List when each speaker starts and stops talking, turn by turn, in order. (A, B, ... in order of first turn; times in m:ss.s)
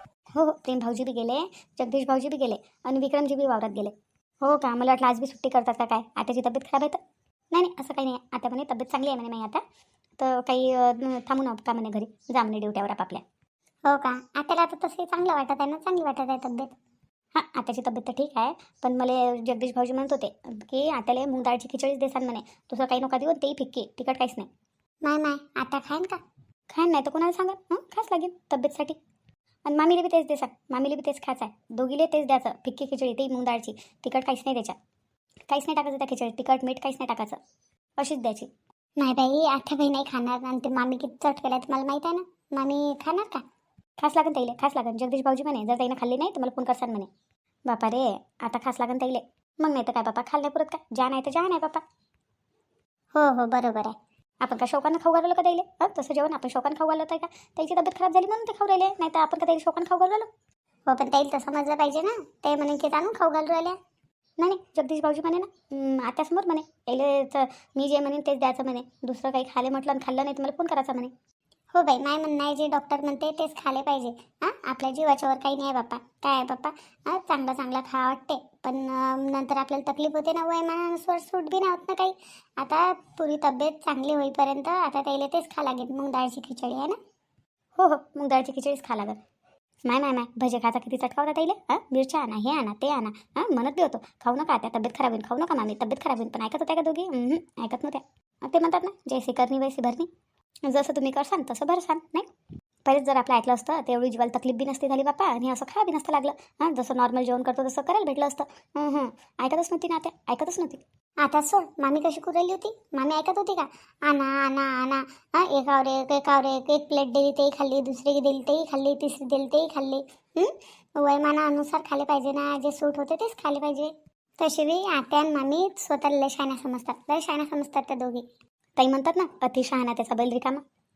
0:00.4-0:07.0 A
0:07.5-0:09.6 A
0:10.2-0:13.2 A
0:13.9-0:16.7 B
0:17.4-0:24.5 A
0:25.0-0:26.2 B
0:26.7-0:29.0 A
0:29.7-0:34.8 A
0:35.5-0:37.4 A
0:38.0-0:38.5 A
0:39.0-0:43.4 B
0:44.0-0:47.1 A
0:47.7-0:51.8 A
0:53.1-0:54.0 B
0:54.4-1:00.3 A
1:00.9-1:03.8 B
1:04.4-1:11.1 A
1:11.7-1:27.0 B
1:27.8-1:29.2 A
1:29.9-1:40.1 A
1:40.7-1:42.3 A
1:42.9-1:50.8 A
1:51.2-2:08.3 B
2:08.8-2:10.6 A